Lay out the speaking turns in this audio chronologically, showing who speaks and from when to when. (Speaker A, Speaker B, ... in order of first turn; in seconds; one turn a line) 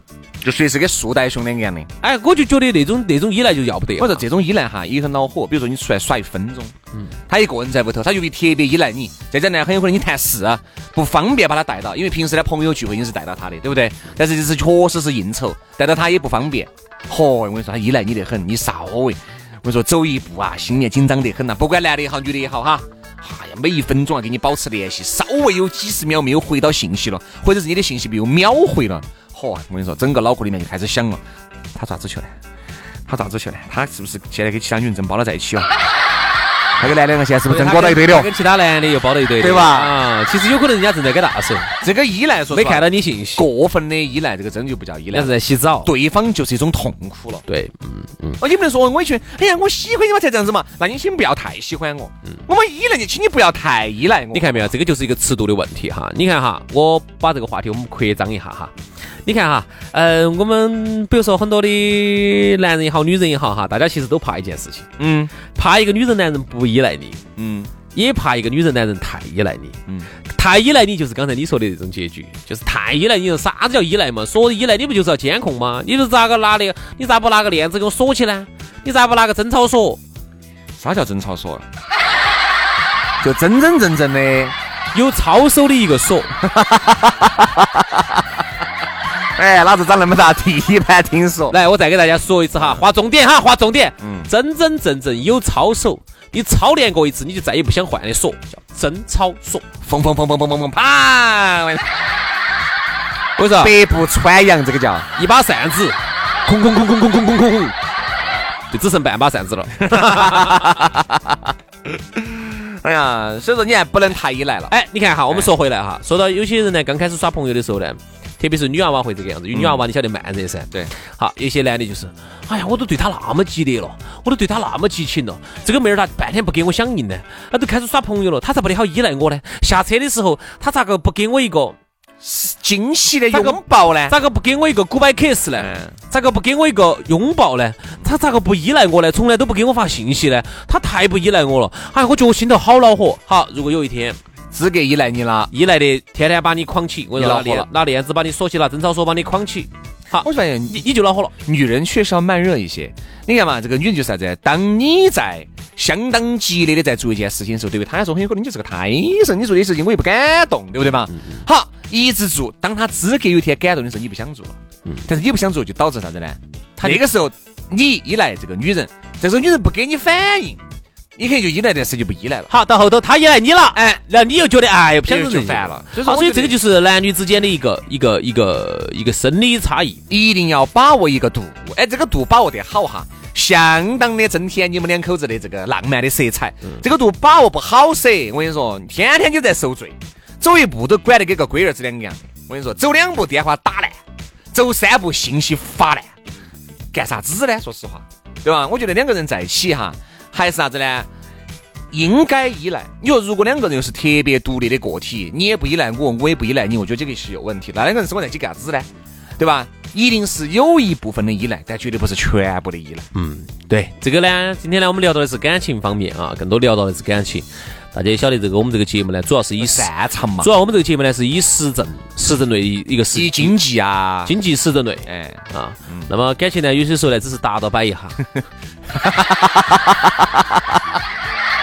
Speaker A: 0.4-1.9
Speaker B: 2.0-4.2
Speaker A: 4.0-6.7
Speaker A: 7.3-31.2
Speaker A: 31.8-32.3
Speaker A: 33.1-35.7
Speaker A: 36.8-38.3
Speaker B: 37.5-41.7
Speaker A: 39.4-39.9
Speaker A: 41.8-47.4
Speaker B: 42.5-43.5
Speaker B: 45.1-45.9
Speaker B: 47.5-48.4
Speaker A: 48.4-54.7
Speaker B: 54.3-58.7
Speaker B: 59.2-64.9
Speaker A: 65.0-65.3
Speaker B: 65.5-67.2
Speaker A: 67.4-67.7
Speaker B: 67.9-69.8
Speaker B: 70.3-80.0
Speaker A: 80.8-81.7
Speaker A: 83.2-84.5
Speaker B: 84.9-86.4
Speaker A: 86.5-88.0
Speaker A: 89.4-91.6
Speaker B: 91.5-99.7
Speaker A: 94.0-94.3
Speaker A: 99.8-101.9
Speaker B: 103.4-103.7
Speaker A: 103.6-105.1
Speaker B: 105.2-107.8
Speaker B: 108.7-110.8
Speaker A: 109.8-111.3
Speaker A: 112.1-114.7
Speaker B: 114.7-131.8
Speaker A: 119.5-119.8
Speaker A: 132.2-134.2
Speaker B: 133.3-144.2
Speaker A: 135.6-135.9
Speaker A: 144.5-145.5
Speaker B: 145.5-151.3
Speaker A: 147.2-147.7
Speaker A: 150.2-150.8
Speaker A: 151.4-170.6
Speaker B: 161.1-161.4
Speaker B: 166.8-167.0
Speaker A: 171.2-172.5
Speaker B: 172.5-180.0
Speaker A: 173.7-174.0
Speaker A: 175.1-176.6
Speaker A: 180.1-194.0
Speaker A: 194.5-196.1
Speaker A: 196.9-201.1
Speaker A: 201.9-213.0
Speaker B: 213.1-223.6
Speaker A: 219.6-220.5
Speaker A: 223.1-224.3
Speaker B: 224.2-228.2
Speaker A: 225.1-226.1
Speaker A: 229.0-230.3